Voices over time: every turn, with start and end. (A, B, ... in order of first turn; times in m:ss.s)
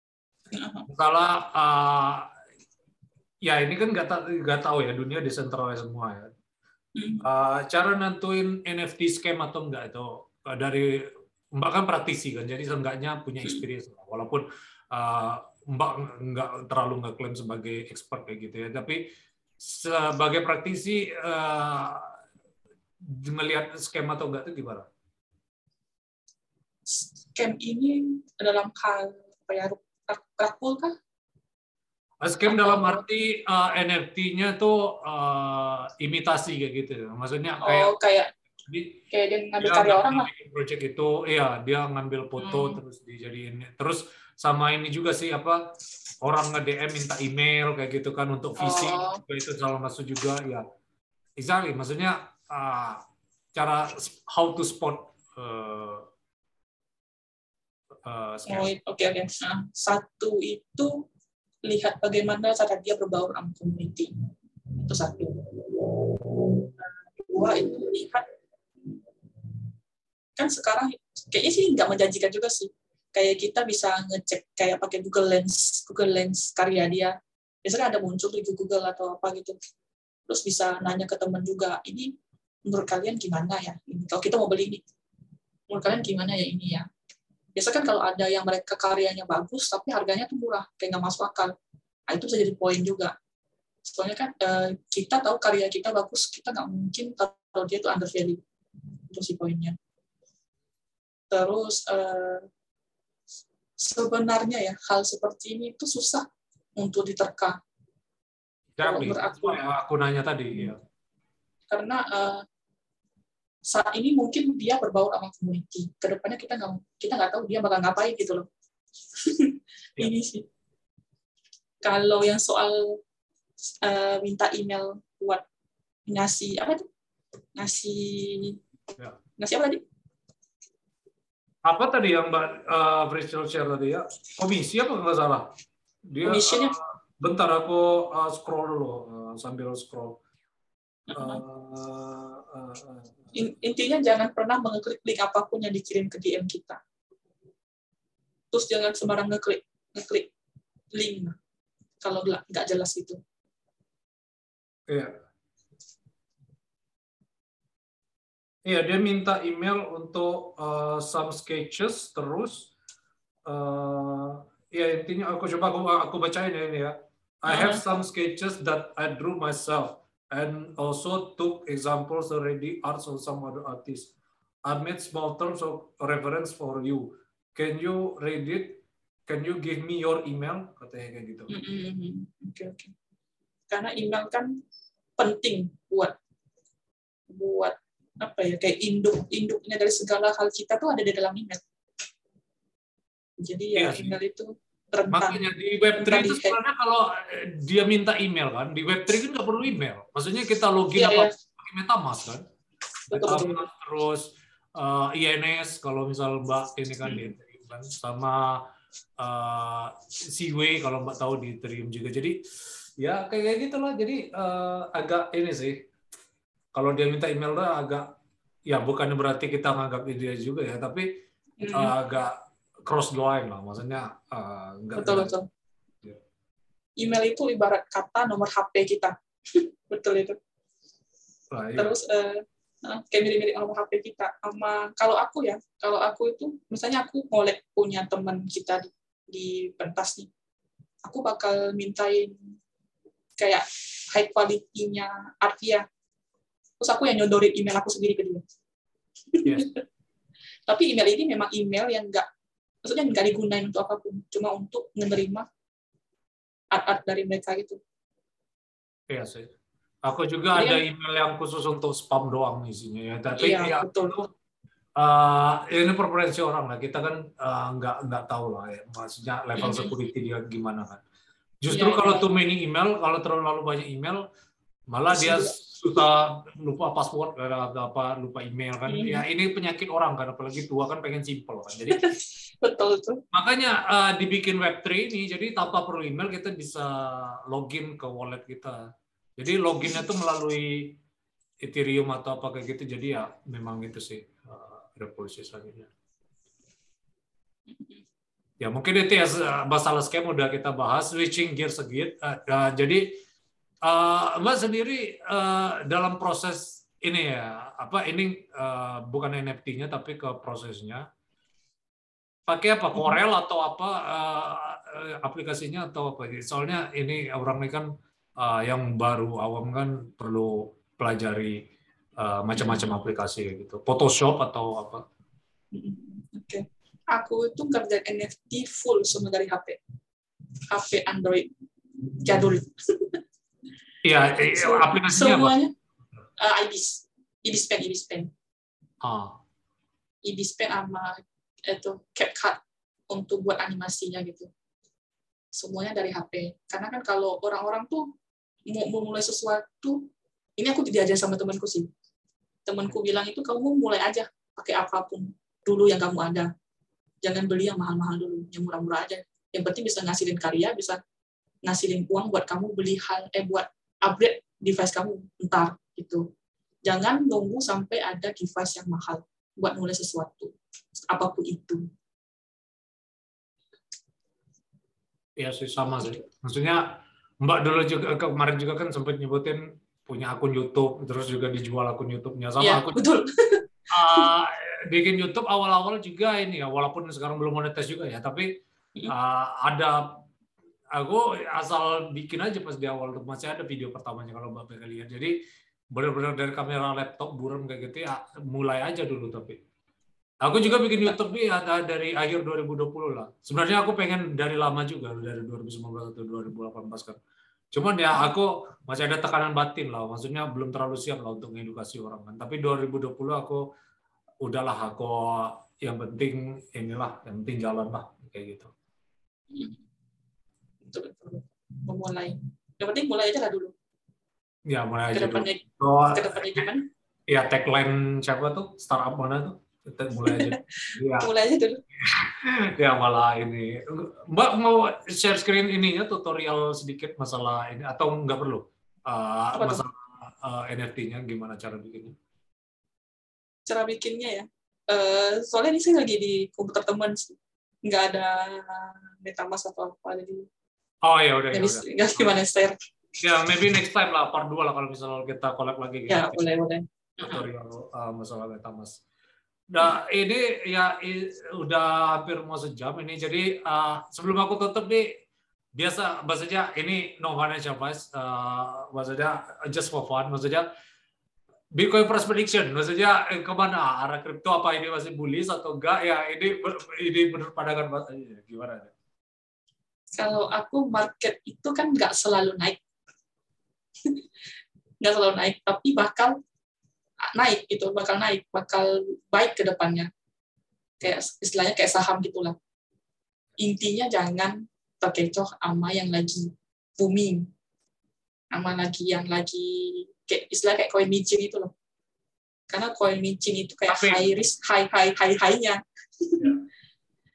0:00.5-0:00.9 A
0:00.9-0:02.3 B
0:03.4-0:06.3 B
0:07.0-0:07.2 A
0:07.2-0:19.0 B
0:19.6-0:22.1 B
0:23.0-0:24.9 B
0:26.9-0:31.0 A
0:32.2-0:37.9 B
0:32.5-0:33.0 A
0:37.6-0:38.3 A
0:38.7-0:39.0 B
0:39.1-0:40.3 A
0:39.6-0:45.6 B
0:42.4-0:42.8 A
0:46.2-0:50.6 B
0:48.6-0:49.2 A
0:51.4-0:53.0 B
0:53.6-0:56.1 B
0:58.0-0:58.7 B
0:58.5-1:00.9 A
1:01.7-1:04.1 A
1:04.8-1:08.2 A
1:10.4-1:19.6 A
1:20.3-1:22.1 A
1:22.7-1:24.8 A
1:25.7-1:26.9 A
1:27.6-1:31.5 A
1:32.1-1:33.1 A
1:33.8-1:38.4 A
1:39.1-1:39.8 A
1:41.3-1:42.4 A
1:43.8-1:46.2 A
1:46.8-1:47.6 A
1:48.8-1:50.8 B
1:48.8-1:49.6 A
1:51.7-1:52.4 A
1:53.7-1:58.5 A
1:59.2-2:00.5 A
2:01.8-2:03.0 A
2:03.8-2:05.4 A
2:06.1-2:06.8 A
2:07.6-2:08.6 A
2:09.4-2:09.8 A
2:11.6-2:15.5 B
2:16.1-2:20.2 B
2:16.2-2:16.8 A
2:21.1-2:21.4 A
2:21.1-2:23.3 B
2:23.3-2:26.8 A
2:28.5-2:30.3 A
2:30.9-2:31.4 A
2:32.0-2:33.2 A
2:38.7-2:42.7 B
2:43.5-2:54.1 B
2:47.5-2:47.8 A
2:54.7-3:01.5 B
3:01.5-3:02.9 A
3:03.7-3:04.6 A
3:05.2-3:06.2 A
3:07.3-3:11.6 A
3:13.4-3:15.4 A
3:13.8-3:14.2 B
3:15.1-3:22.4 B
3:16.0-3:16.6 A
3:20.9-3:21.3 A
3:23.1-3:23.6 A
3:23.1-3:28.6 B
3:27.0-3:27.3 A
3:29.2-3:32.4 B
3:33.0-3:35.8 B
3:36.8-3:38.1 B
3:38.7-3:41.1 B
3:41.6-3:41.9 A
3:41.7-3:42.4 B
3:42.9-3:45.3 B
3:45.0-3:45.5 A
3:47.0-3:50.4 A
3:51.5-3:51.9 B
3:51.8-4:00.3 A
4:01.0-4:02.4 A
4:03.4-4:05.8 A
4:06.8-4:08.4 A
4:09.3-4:09.8 A
4:09.4-4:09.7 B
4:10.7-4:12.3 A
4:12.8-4:15.5 A
4:16.7-4:17.8 A
4:19.1-4:19.5 B
4:20.0-4:24.3 B
4:20.5-4:20.8 A
4:23.4-4:24.3 A
4:25.0-4:31.0 B
4:29.6-4:29.9 A
4:31.6-4:34.2 B
4:31.7-4:32.3 A
4:34.9-4:42.1 B
4:35.1-4:35.6 A
4:38.9-4:39.2 A
4:42.0-4:43.2 A
4:43.3-4:48.8 B
4:49.4-4:51.0 B
4:51.6-4:55.9 B
4:57.7-4:58.0 A
4:58.6-5:03.2 B
5:03.8-5:11.0 B
5:12.5-5:21.6 B
5:22.2-5:25.0 B
5:22.6-5:22.9 A
5:25.7-5:29.8 A
5:30.7-5:31.5 A
5:32.2-5:33.2 A
5:34.0-5:35.5 B
5:34.5-5:35.7 A
5:36.4-5:38.3 A
5:39.0-5:39.4 B
5:40.2-5:41.2 A
5:41.7-5:42.6 A
5:43.1-5:44.5 A
5:45.5-5:48.0 A
5:48.7-5:50.0 A
5:50.6-5:51.9 A
5:52.7-5:56.5 A
5:57.2-6:01.0 A
6:01.6-6:06.2 A
6:06.9-6:10.5 A
6:11.1-6:11.8 A
6:15.4-6:16.8 B
6:17.4-6:23.0 B
6:22.6-6:23.6 A
6:23.9-6:28.5 B
6:29.1-6:30.1 B
6:30.9-6:35.3 B
6:36.0-6:39.6 B
6:40.4-6:47.2 B
6:40.7-6:41.2 A
6:47.7-6:53.6 B
6:54.4-6:58.7 B
6:59.5-6:59.8 A
7:00.8-7:03.7 A
7:04.7-7:06.7 B
7:05.1-7:06.8 A
7:07.3-7:11.3 B
7:10.3-7:11.8 A
7:12.0-7:22.2 B
7:19.6-7:19.8 A
7:23.7-7:30.5 A
7:31.0-7:32.3 B
7:31.5-7:32.8 A
7:33.2-7:36.5 B
7:36.1-7:37.4 A
7:37.2-7:39.0 B
7:39.7-7:45.1 B
7:45.8-7:50.6 B
7:51.7-7:58.9 B
8:00.2-8:02.8 A
8:05.0-8:06.4 A
8:07.3-8:10.1 A
8:11.0-8:12.6 A
8:13.6-8:17.5 A
8:18.5-8:21.7 A
8:22.7-8:26.5 A
8:23.9-8:24.3 B